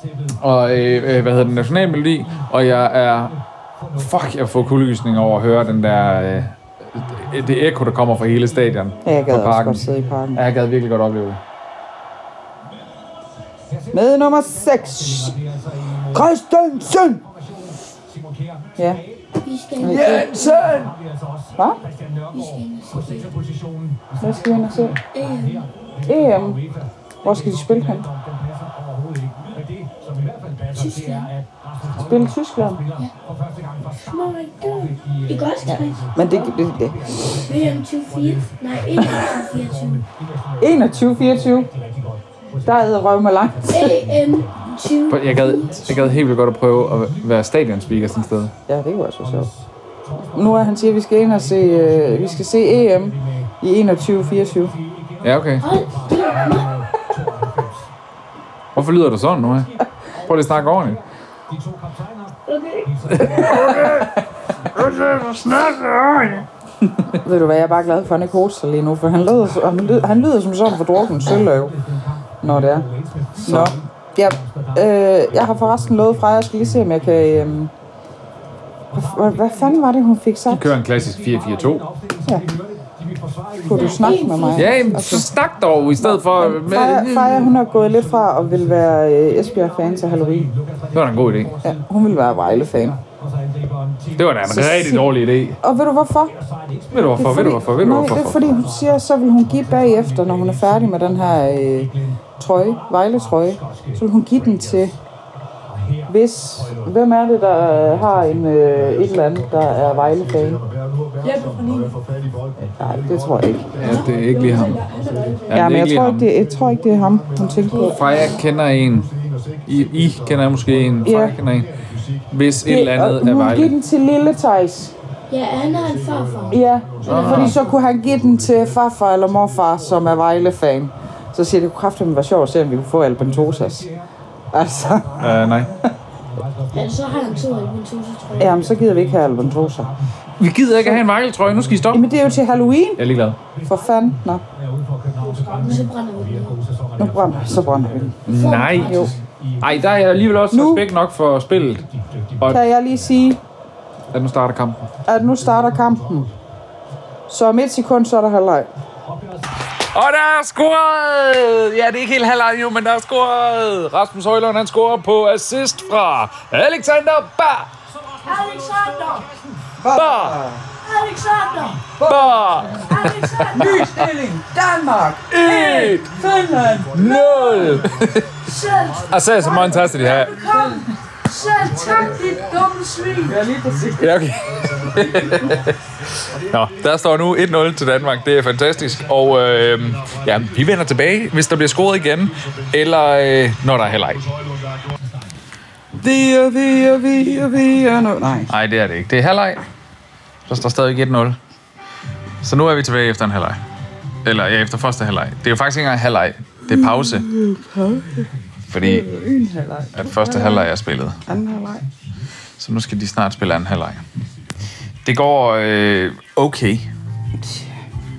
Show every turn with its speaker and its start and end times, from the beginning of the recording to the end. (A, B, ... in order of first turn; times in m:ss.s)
0:00.3-0:03.3 A
0:03.9-0:11.4 A
0:09.0-0:10.4 B
0:13.9-0:15.4 B
0:16.1-0:17.2 B
0:18.8-0:19.0 B
0:19.4-0:20.7 C
0:19.8-0:20.3 B
0:19.8-0:21.0 A
0:21.6-0:21.8 B
0:22.3-0:23.4 C
0:24.2-0:25.0 B
0:25.1-0:25.7 C
0:26.0-0:26.6 B
0:27.2-0:28.1 B
0:30.7-0:31.3 C
0:31.9-0:32.8 B
0:33.9-0:36.5 C
0:36.1-0:37.0 B
0:37.1-0:40.0 C
0:40.6-0:41.7 B
0:42.6-0:44.0 B
0:43.7-0:46.2 C
0:45.1-0:48.5 A
0:48.7-0:49.5 B
0:50.3-0:54.7 B
0:55.2-0:55.7 A
0:55.6-0:56.8 C
0:58.7-0:59.7 A
1:00.2-1:01.0 A
1:02.5-1:03.4 C
1:03.1-1:06.4 A
1:03.2-1:03.9 B
1:07.1-1:11.8 B
1:12.4-1:17.7 B
1:13.4-1:13.8 A
1:18.9-1:20.7 B
1:20.5-1:21.9 A
1:22.2-1:22.5 B
1:23.6-1:25.3 B
1:23.6-1:25.1 C
1:24.5-1:27.5 A
1:26.0-1:30.5 B
1:30.9-1:31.6 A
1:31.6-1:33.0 B
1:34.1-1:35.6 A
1:34.4-1:36.3 B
1:36.9-1:38.7 A
1:37.1-1:44.9 B
1:46.1-1:50.6 B
1:51.2-1:52.0 C
1:52.6-1:54.0 B
1:53.8-1:55.6 C
1:53.8-1:54.8 A
1:55.5-1:56.3 A
1:55.5-1:58.0 B
1:57.7-1:58.4 C
1:57.8-1:59.1 A
1:59.6-2:01.7 A
2:01.0-2:01.4 B
2:02.3-2:03.7 A
2:02.6-2:04.9 B
2:05.3-2:07.5 C
2:06.5-2:13.9 B
2:07.0-2:07.6 A
2:14.5-2:15.9 B
2:15.2-2:15.7 A
2:16.7-2:18.7 C
2:18.4-2:19.9 B
2:20.4-2:22.0 A
2:21.9-2:23.0 B
2:23.0-2:23.4 A
2:23.6-2:24.4 B
2:25.2-2:26.6 C
2:27.0-2:28.2 B
2:28.2-2:31.8 A
2:28.3-2:29.2 C
2:28.8-2:29.2 B
2:30.5-2:30.8 B
2:32.5-2:33.4 B
2:34.1-2:34.9 A
2:35.0-2:36.3 B
2:37.3-2:38.7 B
2:39.8-2:47.7 A
2:48.2-2:49.4 C
2:49.8-2:50.6 B
2:49.9-2:50.4 A
2:50.8-2:52.0 C
2:52.0-2:54.1 A
2:52.0-2:52.3 B
2:52.7-2:53.7 C
2:53.0-2:57.2 B
2:55.3-2:56.1 A
2:56.9-2:58.3 A
2:57.0-2:57.8 C
2:58.4-3:03.3 C
2:59.1-3:00.5 A
2:59.4-3:04.3 B
3:03.9-3:05.7 A
3:04.9-3:05.4 B
3:06.2-3:14.3 A
3:16.0-3:18.5 B
3:18.5-3:19.6 A
3:20.4-3:21.4 A
3:22.4-3:23.6 A
3:24.2-3:27.3 A
3:26.7-3:30.7 B
3:28.7-3:29.1 A
3:29.9-3:31.2 A
3:31.2-3:31.9 B
3:32.6-3:34.0 A
3:35.0-3:36.9 A
3:37.4-3:37.7 B